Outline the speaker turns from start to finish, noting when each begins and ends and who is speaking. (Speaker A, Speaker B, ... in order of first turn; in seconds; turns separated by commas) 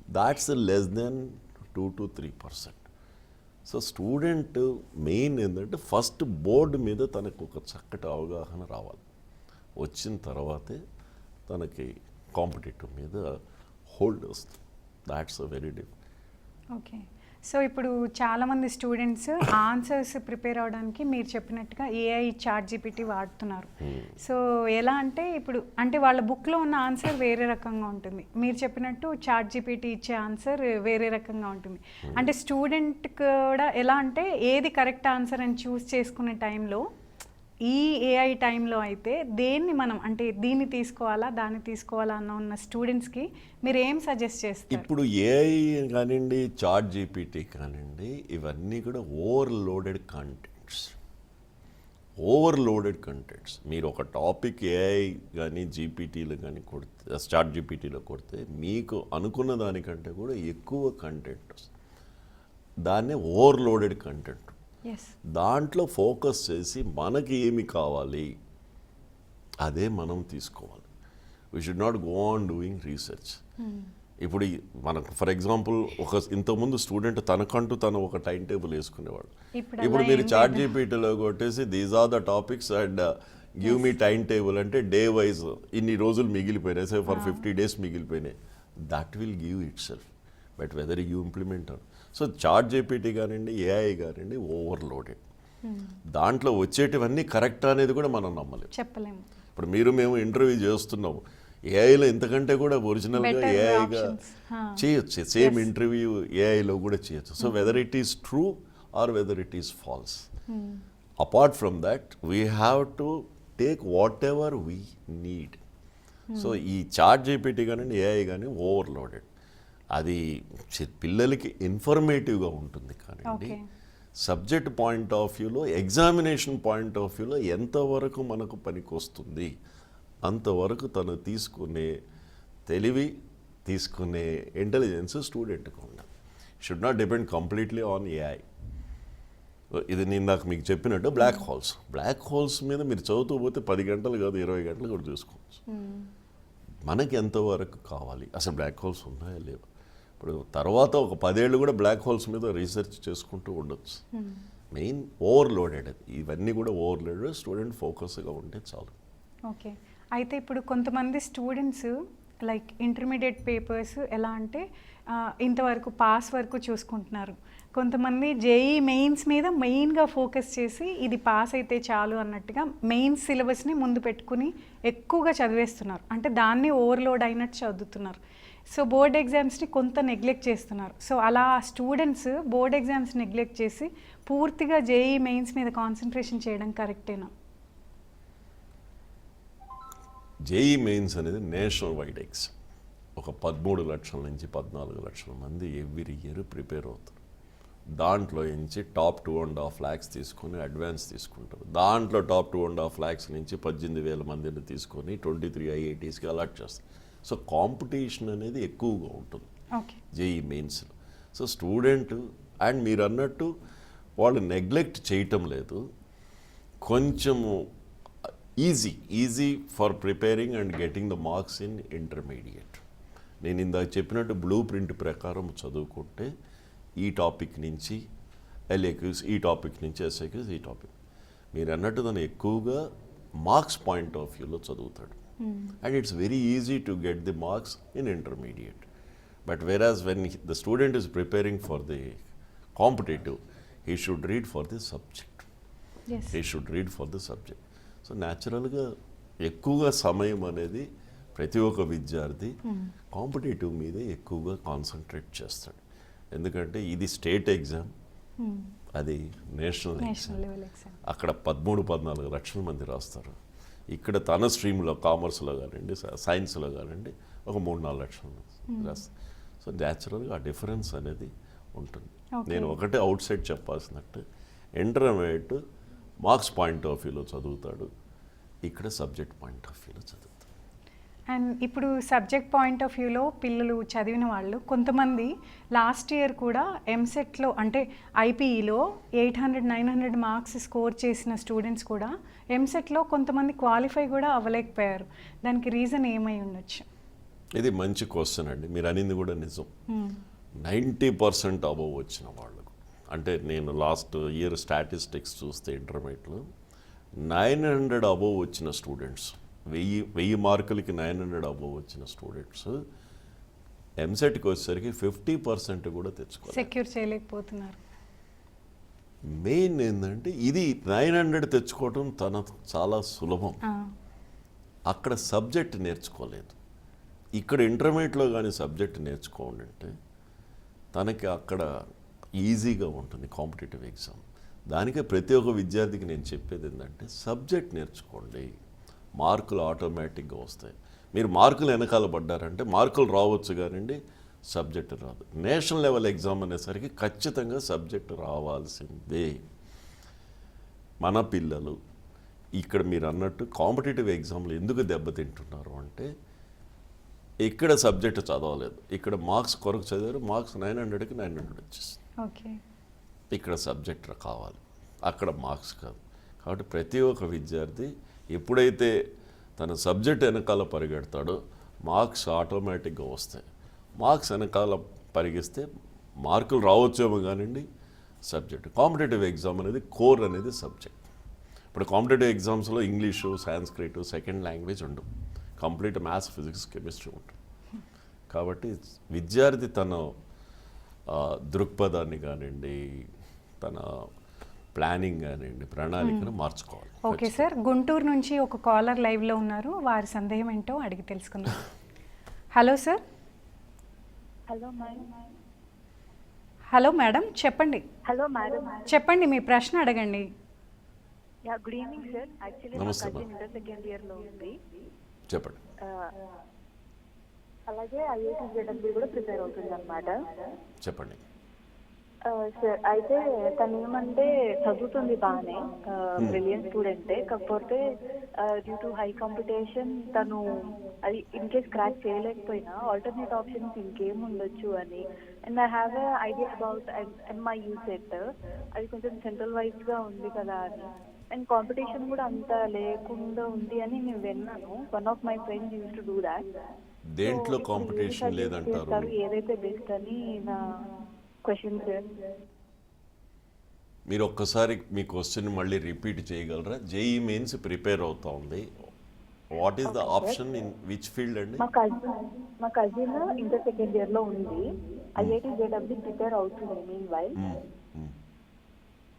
Speaker A: 0.1-2.9, Speaker A: 3.6-9.0, Speaker A: 9.8-10.8, Speaker A: 11.5-13.3, Speaker A: 13.9-15.9, Speaker B: 16.8-36.8, Speaker A: 23.8-24.1, Speaker A: 32.0-32.3, Speaker B: 37.6-44.9, Speaker A: 44.7-51.0, Speaker A: 52.2-61.7, Speaker A: 62.8-64.5, Speaker B: 64.8-65.1, Speaker A: 65.3-68.3, Speaker A: 69.6-70.9, Speaker A: 71.5-73.4, Speaker B: 73.6-73.9, Speaker A: 74.2-95.2, Speaker B: 79.5-80.7, Speaker B: 83.6-83.9, Speaker B: 87.1-87.4, Speaker B: 95.6-96.0, Speaker A: 96.0-98.7, Speaker B: 98.7-99.2, Speaker A: 99.5-104.2, Speaker B: 103.2-104.8, Speaker A: 104.8-110.3, Speaker B: 105.4-105.7, Speaker B: 107.4-107.7, Speaker B: 110.5-110.8, Speaker A: 111.2-115.6, Speaker B: 116.3-116.6, Speaker A: 116.4-119.3, Speaker A: 119.9-123.5, Speaker B: 123.3-123.6, Speaker A: 124.2-129.5, Speaker A: 130.2-131.9, Speaker A: 132.7-133.1, Speaker A: 133.6-136.1, Speaker A: 136.6-138.4, Speaker A: 139.7-145.6, Speaker B: 145.7-146.1, Speaker A: 146.8-149.7, Speaker A: 150.2-154.0, Speaker B: 154.1-154.4, Speaker A: 154.7-158.9, Speaker B: 159.5-187.3, Speaker A: 190.4-192.5, Speaker A: 193.2-197.2, Speaker A: 197.9-209.5, Speaker B: 209.7-210.0, Speaker A: 210.1-213.5, Speaker A: 214.2-215.8, Speaker A: 216.8-217.7, Speaker A: 218.2-222.8, Speaker A: 223.4-226.3, Speaker A: 227.0-228.0, Speaker A: 228.7-230.9, Speaker A: 231.5-235.2, Speaker B: 235.4-235.8, Speaker A: 235.8-238.8, Speaker A: 239.4-242.2, Speaker A: 242.8-245.5, Speaker B: 246.1-246.4, Speaker A: 246.3-252.6, Speaker B: 252.7-252.9, Speaker A: 253.1-255.8, Speaker A: 256.3-257.9, Speaker B: 258.4-258.7, Speaker A: 258.9-260.4, Speaker B: 260.0-261.0, Speaker A: 261.0-263.4, Speaker A: 263.9-274.2, Speaker B: 268.7-269.0, Speaker B: 272.3-272.8, Speaker A: 274.8-275.6, Speaker A: 276.2-277.9, Speaker A: 278.6-280.5, Speaker B: 281.3-296.9, Speaker A: 297.6-299.7, Speaker B: 299.9-300.2, Speaker A: 300.6-306.4, Speaker A: 307.2-312.8, Speaker A: 314.0-316.7, Speaker B: 316.5-317.8, Speaker A: 319.3-323.6, Speaker B: 323.6-323.9, Speaker A: 324.9-326.6, Speaker A: 327.4-329.9, Speaker A: 330.9-331.7, Speaker A: 332.4-338.5, Speaker A: 339.2-344.0, Speaker A: 344.5-349.4, Speaker A: 351.0-351.8, Speaker A: 352.6-356.1, Speaker A: 357.4-362.0, Speaker B: 362.2-362.6, Speaker A: 363.3-368.9, Speaker A: 369.6-373.4, Speaker A: 374.0-375.6, Speaker A: 376.2-377.6, Speaker A: 378.2-381.0, Speaker A: 381.7-385.1, Speaker A: 385.6-387.3, Speaker A: 388.3-390.1, Speaker A: 391.1-393.1, Speaker A: 393.6-394.0, Speaker A: 394.7-397.4, Speaker B: 396.0-396.3, Speaker B: 397.0-401.6, Speaker B: 402.5-403.0, Speaker C: 404.5-405.2, Speaker B: 406.7-407.8, Speaker C: 408.1-408.9, Speaker B: 408.9-410.2, Speaker C: 411.4-414.6, Speaker A: 412.7-413.2, Speaker A: 415.3-415.6, Speaker C: 415.8-416.1, Speaker C: 417.7-420.2, Speaker A: 420.8-421.2, Speaker C: 422.2-427.8, Speaker A: 426.2-426.4, Speaker C: 428.4-446.4, Speaker A: 447.1-449.1, Speaker C: 447.2-450.8, Speaker C: 451.4-452.0, Speaker A: 454.1-458.7, Speaker A: 459.5-461.6, Speaker C: 459.9-460.4, Speaker C: 461.6-464.6, Speaker C: 465.1-467.4, Speaker A: 467.4-468.1